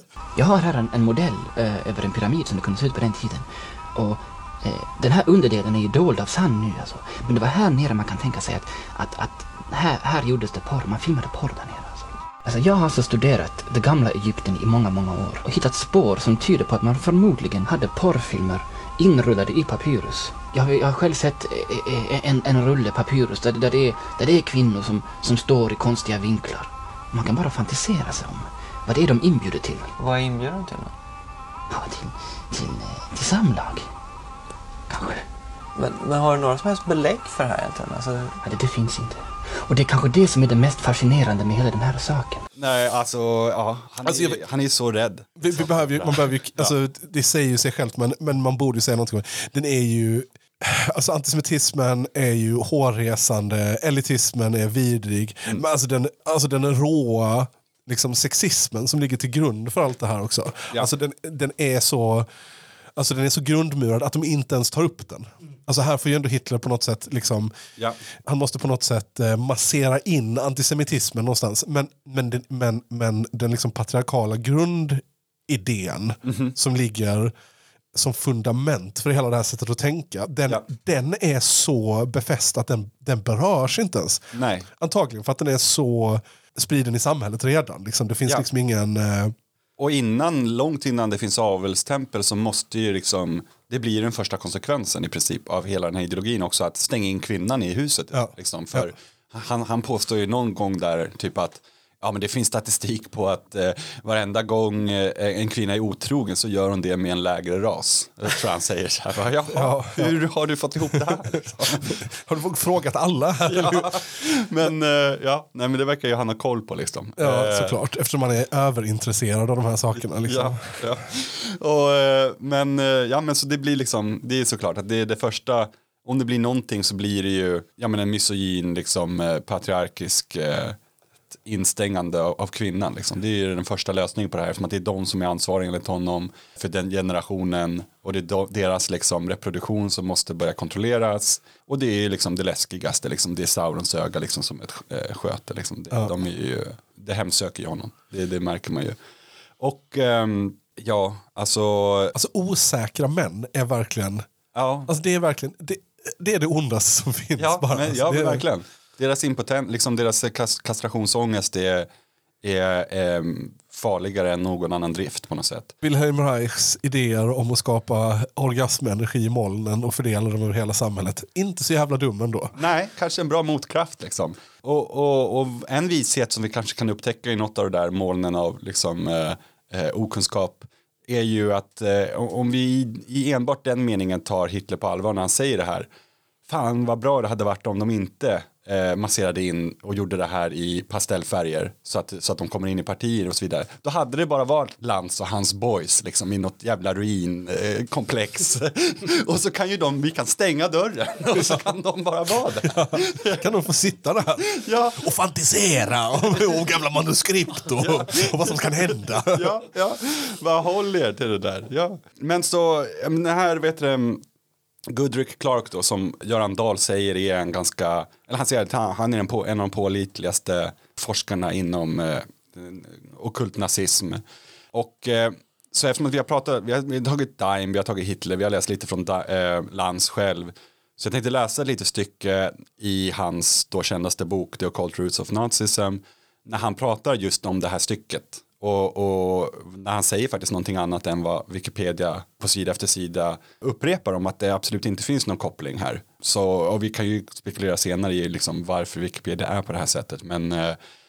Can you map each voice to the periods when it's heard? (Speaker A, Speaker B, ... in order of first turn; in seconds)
Speaker A: 0.4-29.9, 31.7-33.9, 34.9-35.2, 38.4-42.4
Speaker B: 30.0-30.9, 35.8-38.4
Speaker C: 42.5-46.8, 76.2-76.5, 84.3-84.7, 89.8-112.0, 113.5-117.8, 120.2-130.8, 131.4-149.0, 149.6-152.1, 154.5-154.9, 157.4-161.9, 162.4-165.7, 172.6-185.9, 186.5-203.5, 204.4-205.0, 207.8-214.2, 214.9-224.2, 224.7-250.8
Speaker D: 44.0-44.4, 45.4-62.3, 63.0-67.5, 68.3-77.3, 78.0-84.3, 84.8-89.3, 98.1-98.9, 109.5-110.1, 111.8-114.0, 117.2-121.0, 152.1-154.3, 154.9-158.4, 165.8-172.5, 202.6-209.6